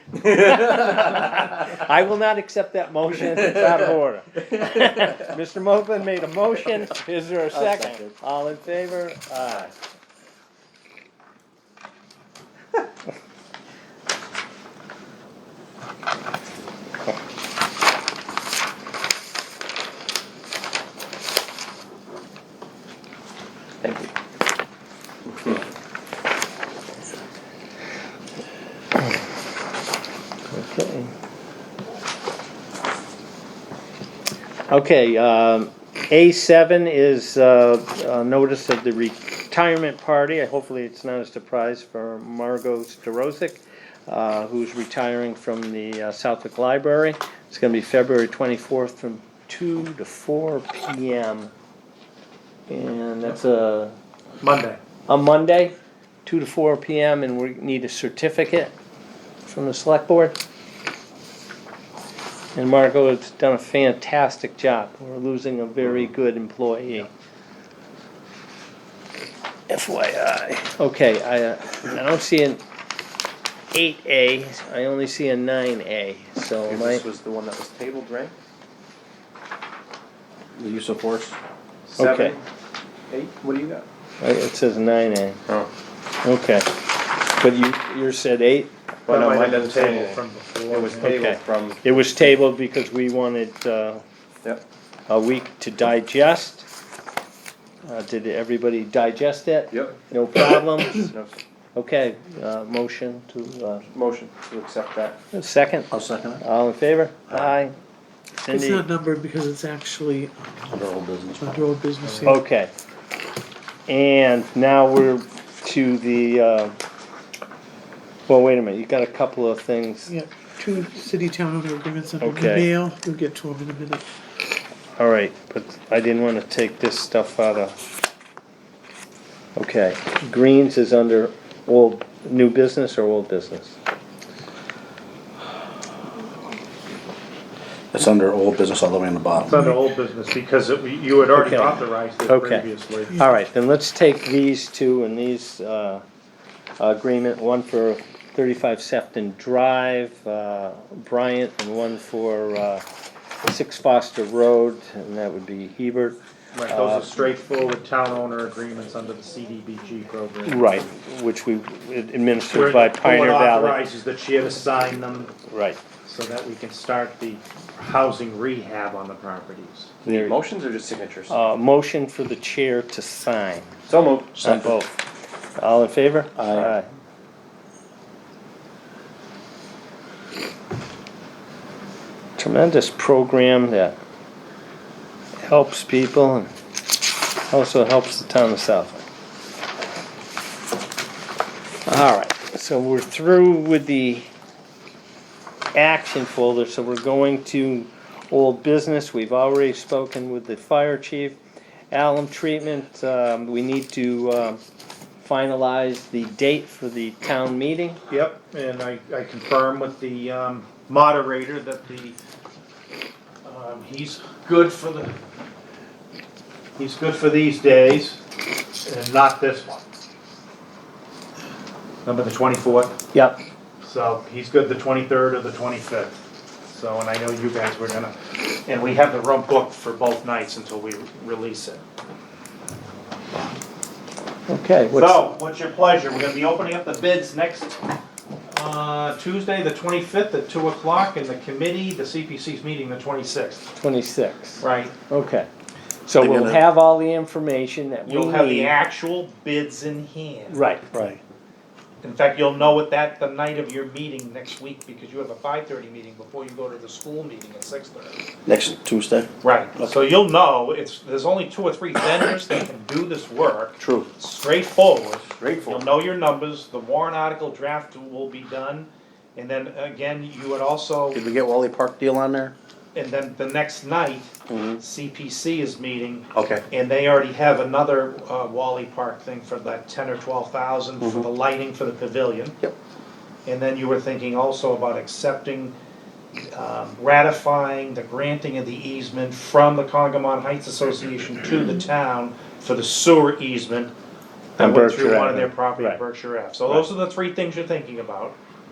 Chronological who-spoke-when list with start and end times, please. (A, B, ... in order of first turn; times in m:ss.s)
0:00.2-0:01.2 A
0:00.3-0:09.7 B
0:07.5-0:08.0 A
0:23.8-0:24.1 A
0:30.5-0:31.1 B
0:34.7-0:51.5 B
0:52.7-0:54.0 B
0:54.4-0:54.8 C
0:55.1-0:58.7 B
0:59.4-1:00.4 B
1:02.5-1:07.1 B
1:09.7-1:12.6 B
1:13.7-1:17.0 B
1:16.7-1:18.3 A
1:20.5-1:21.4 D
1:21.9-1:22.4 A
1:22.0-1:22.4 B
1:23.1-1:23.8 A
1:24.2-1:25.4 B
1:26.2-1:26.7 B
1:27.3-1:28.7 B
1:29.1-1:31.2 C
1:29.1-1:31.8 A
1:31.0-1:34.0 B
1:35.1-1:36.6 B
1:37.8-1:41.1 B
1:39.7-1:40.0 A
1:41.0-1:41.4 A
1:41.7-1:43.9 B
1:43.9-1:45.2 A
1:45.3-1:47.7 B
1:45.9-1:46.4 D
1:48.4-1:48.9 B
1:48.5-1:50.3 E
1:50.7-1:51.5 D
1:51.4-1:52.3 E
1:52.2-1:52.7 B
1:53.9-1:56.8 B
1:58.3-2:00.1 B
2:00.1-2:04.0 E
2:02.2-2:02.7 B
2:05.0-2:07.7 B
2:09.6-2:13.8 B
2:17.9-2:19.6 D
2:19.4-2:23.2 C
2:21.3-2:26.0 B
2:26.8-2:32.8 B
2:33.4-2:37.1 B
2:36.5-2:40.7 C
2:40.4-2:43.8 B
2:42.5-2:45.3 C
2:45.5-2:45.8 B
2:46.0-2:50.0 C
2:50.0-2:51.4 A
2:50.0-2:50.4 B
2:51.3-2:53.7 B
2:53.9-2:54.4 A
2:54.4-2:55.0 B
2:55.6-2:56.8 B
3:02.4-3:04.0 B
3:05.4-3:06.5 B
3:07.5-3:09.0 B
3:11.8-3:14.3 B
3:15.7-3:21.4 B
3:21.9-3:24.6 B
3:25.2-3:28.0 B
3:28.1-3:32.2 C
3:33.4-3:35.1 C
3:36.8-3:38.2 C
3:38.8-3:39.8 C
3:42.0-3:42.9 C
3:43.1-3:43.4 B
3:43.8-3:46.2 C
3:46.7-3:51.8 C
3:54.5-3:55.2 B
3:54.9-3:57.8 C
3:58.5-4:03.6 C
4:03.8-4:05.5 B
4:04.6-4:05.0 C
4:06.1-4:08.7 B
4:06.2-4:06.6 D
4:08.0-4:10.6 C
4:10.5-4:11.1 B
4:12.0-4:18.2 C
4:18.4-4:19.9 D
4:19.4-4:31.2 C
4:23.8-4:24.1 D
4:25.4-4:25.9 A
4:31.1-4:32.5 D
4:32.9-4:42.6 C
4:34.5-4:34.8 D
4:36.4-4:36.6 D
4:43.4-4:45.7 C
4:46.5-4:53.9 C
4:54.6-4:56.0 B
4:54.6-4:58.4 C